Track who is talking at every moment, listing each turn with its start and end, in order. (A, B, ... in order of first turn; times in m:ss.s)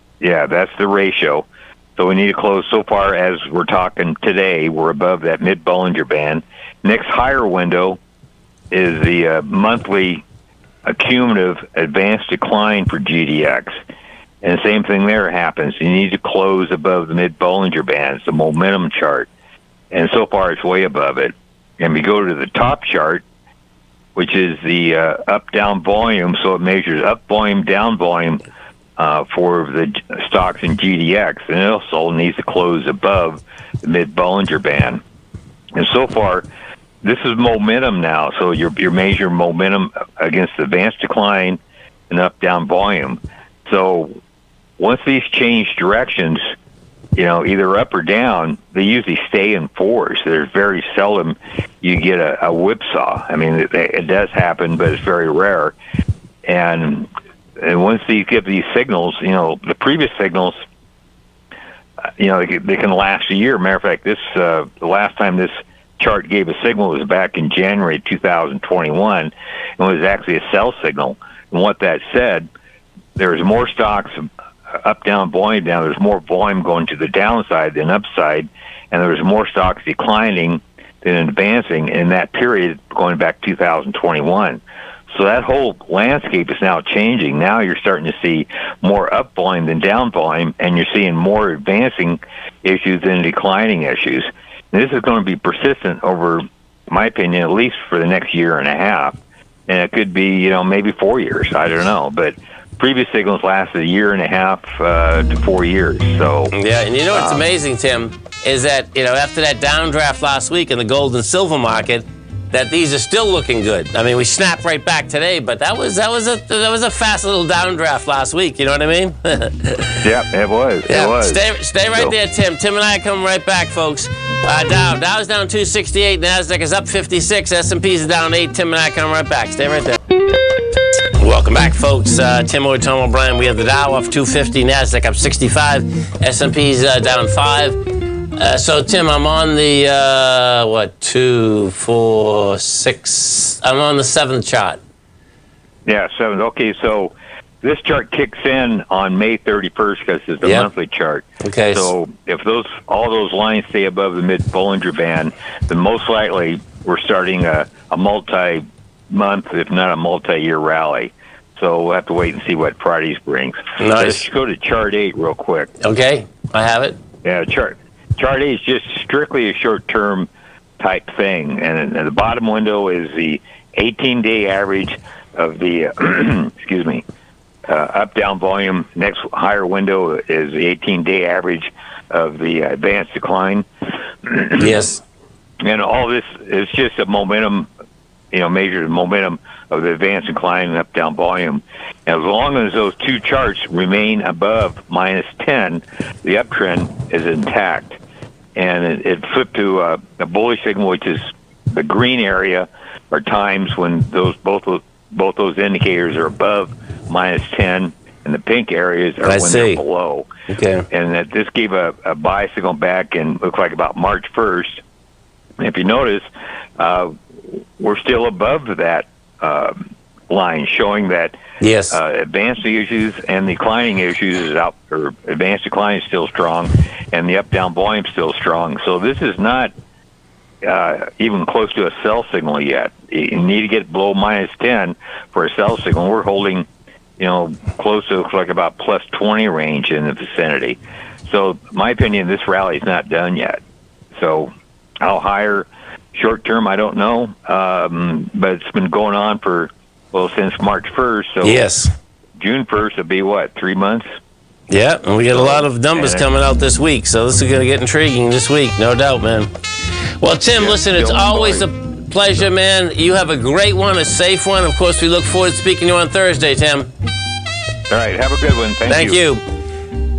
0:00.2-0:08.0 A
0:08.7-0:10.2 A
0:10.8-0:13.7 A
0:14.4-0:19.3 A
0:19.9-0:23.2 A
0:24.2-0:28.4 A
0:29.0-0:35.0 A
0:35.8-0:36.5 A
0:37.0-0:41.6 A
0:42.1-0:44.1 A
0:44.8-0:46.4 A
0:47.2-0:55.8 A
0:56.4-1:00.6 A
1:02.2-1:12.5 A
1:13.2-1:39.1 A
1:39.7-1:46.5 A
1:46.5-2:00.0 B
1:47.1-1:47.4 A
2:00.0-2:01.4 A
2:00.9-2:10.0 B
2:11.2-2:17.8 B
2:18.4-2:24.8 B
2:25.8-2:45.7 A
2:30.4-2:30.7 B
2:31.4-2:31.9 B
2:43.8-2:44.2 B
2:45.8-2:47.0 B
2:47.2-2:50.3 A
2:50.8-2:57.0 A
2:57.7-3:03.6 A
3:04.2-3:04.8 A
3:04.6-3:05.0 B
3:05.6-3:07.7 A
3:08.3-3:18.0 A
3:18.6-3:30.2 A
3:29.2-3:29.8 B
3:30.5-3:30.8 B
3:30.9-3:34.8 A
3:35.6-3:41.3 A
3:41.6-3:42.0 B
3:41.9-3:49.7 A
3:50.6-3:56.6 A
3:57.2-4:03.6 A
4:04.1-4:04.5 A
4:05.0-4:11.6 A
4:11.4-4:11.9 B
4:12.4-4:14.0 A
4:14.7-4:19.5 B
4:15.3-4:16.3 A
4:20.2-4:26.9 B
4:20.6-4:21.7 A
4:27.9-4:29.2 A
4:28.9-4:29.4 B